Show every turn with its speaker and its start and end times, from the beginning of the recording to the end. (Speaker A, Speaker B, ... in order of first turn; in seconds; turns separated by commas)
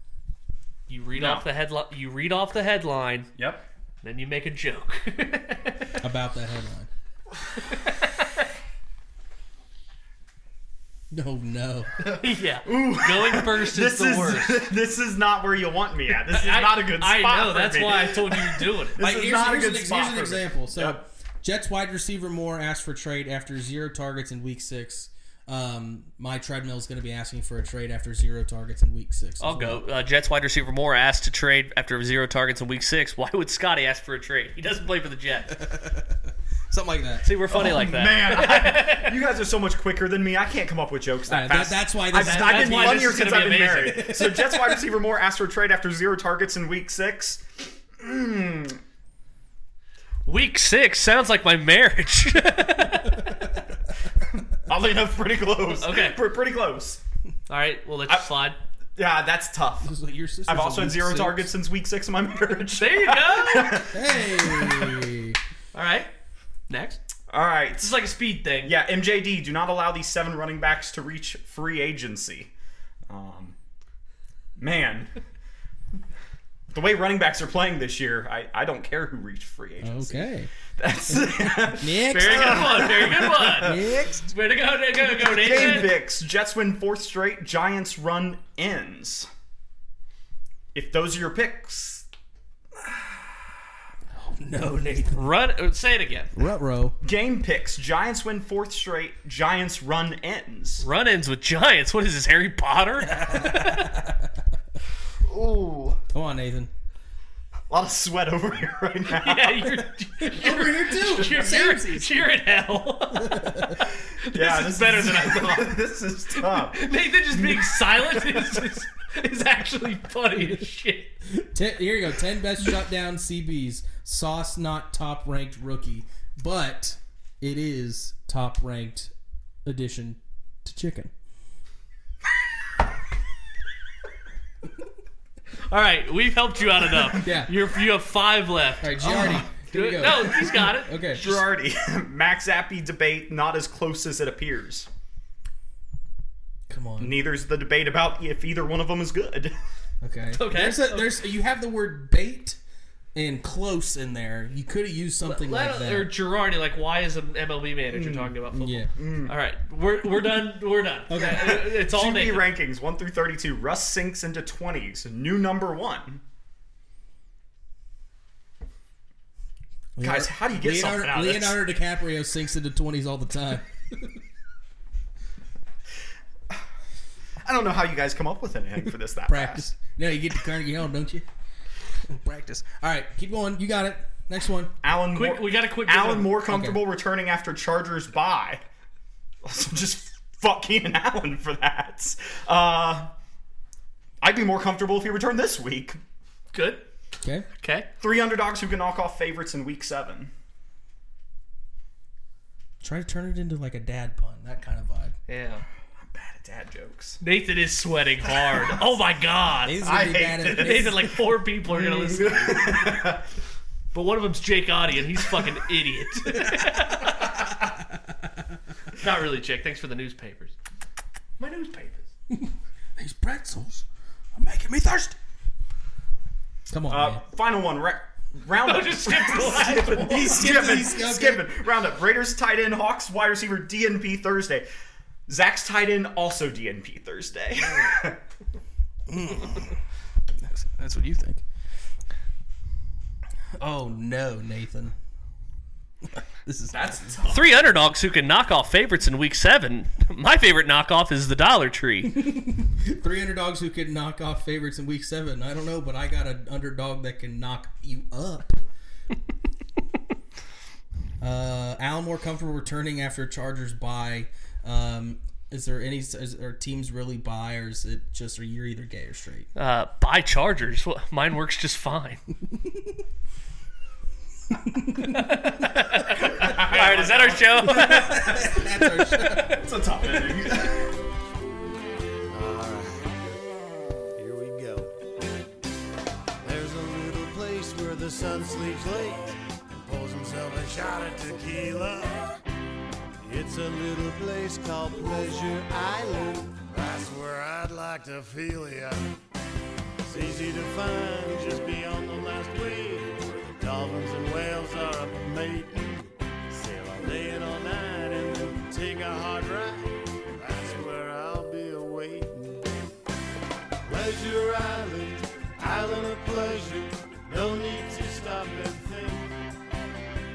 Speaker A: 0.9-3.3, Speaker B: 1.2-1.5, Speaker B: 3.4-3.6, Speaker A: 4.0-6.0, Speaker C: 6.0-6.9, Speaker A: 7.7-8.5, Speaker C: 11.1-12.1, Speaker B: 12.0-21.0, Speaker A: 12.1-14.6, Speaker A: 16.3-19.0, Speaker C: 19.0-29.8, Speaker A: 29.4-35.6, Speaker C: 35.5-37.3, Speaker A: 37.2-39.1, Speaker B: 37.5-48.8, Speaker C: 41.3-44.8, Speaker A: 42.2-44.1, Speaker A: 50.2-53.4, Speaker B: 54.6-57.0, Speaker A: 55.7-56.2, Speaker A: 57.5-58.6, Speaker B: 59.0-59.9, Speaker C: 59.8-61.5, Speaker B: 60.5-65.1, Speaker A: 62.8-63.9, Speaker C: 63.9-65.4, Speaker A: 65.7-66.1, Speaker A: 66.7-67.0, Speaker B: 67.3-68.0, Speaker A: 67.8-68.8, Speaker B: 68.6-72.5, Speaker B: 73.1-73.5, Speaker B: 74.6-75.1, Speaker B: 76.7-83.9, Speaker C: 79.8-80.5, Speaker C: 81.1-83.0, Speaker A: 82.1-85.9, Speaker C: 83.5-84.3, Speaker B: 85.1-89.3, Speaker B: 90.7-92.1, Speaker B: 92.8-93.3, Speaker C: 94.1-95.3, Speaker A: 95.1-96.3, Speaker C: 96.3-97.0, Speaker B: 97.0-100.8, Speaker A: 100.8-103.9, Speaker C: 103.1-104.4, Speaker B: 105.2-106.0, Speaker C: 106.1-106.7, Speaker B: 107.7-109.8, Speaker A: 109.1-115.8, Speaker C: 110.2-112.5, Speaker B: 110.3-111.5, Speaker C: 113.1-113.8, Speaker B: 114.1-116.8, Speaker A: 116.4-121.2, Speaker C: 121.3-129.1, Speaker C: 129.7-131.1, Speaker A: 135.7-141.5, Speaker C: 137.1-137.6, Speaker C: 138.8-141.3, Speaker B: 139.1-139.4, Speaker B: 139.9-144.9, Speaker C: 146.7-147.2, Speaker B: 147.0-149.5, Speaker C: 150.0-152.6, Speaker A: 150.3-151.1, Speaker C: 153.2-156.1, Speaker A: 155.2-162.5, Speaker B: 157.9-158.4, Speaker C: 158.5-158.9, Speaker B: 159.0-159.4, Speaker C: 161.1-161.6, Speaker B: 161.1-166.2, Speaker C: 170.0-174.2, Speaker B: 170.0-171.6, Speaker B: 177.4-179.7, Speaker C: 179.3-181.2, Speaker C: 182.0-184.7, Speaker B: 184.8-188.6, Speaker A: 185.1-186.4, Speaker C: 186.5-186.8, Speaker B: 189.4-193.1, Speaker B: 194.2-196.0, Speaker A: 196.5-196.9, Speaker C: 197.2-197.5, Speaker A: 197.6-197.9, Speaker B: 198.0-200.3, Speaker C: 202.8-205.2, Speaker A: 205.3-205.6, Speaker B: 206.0-207.2, Speaker A: 207.2-209.9, Speaker C: 209.6-211.0, Speaker B: 209.8-213.2, Speaker A: 210.6-213.1, Speaker A: 213.9-217.4, Speaker C: 216.5-218.6, Speaker A: 218.9-220.6, Speaker A: 221.4-222.1, Speaker C: 222.3-225.2, Speaker C: 226.7-227.2, Speaker B: 226.9-234.7, Speaker A: 228.6-230.7, Speaker C: 229.8-231.5, Speaker B: 235.3-238.2, Speaker C: 239.1-239.8, Speaker C: 240.3-241.4, Speaker C: 243.6-244.9, Speaker C: 246.1-247.2, Speaker B: 246.7-247.7, Speaker A: 247.3-252.2, Speaker C: 252.1-258.6, Speaker C: 261.2-269.5, Speaker A: 269.6-272.2, Speaker C: 272.5-272.8, Speaker C: 274.5-275.8, Speaker A: 275.0-279.6, Speaker B: 276.1-278.5, Speaker C: 277.6-279.6, Speaker B: 279.5-281.0, Speaker D: 282.3-283.4, Speaker D: 284.2-285.0, Speaker D: 286.4-292.4, Speaker D: 293.2-299.2, Speaker D: 300.0-312.8, Speaker D: 313.9-319.4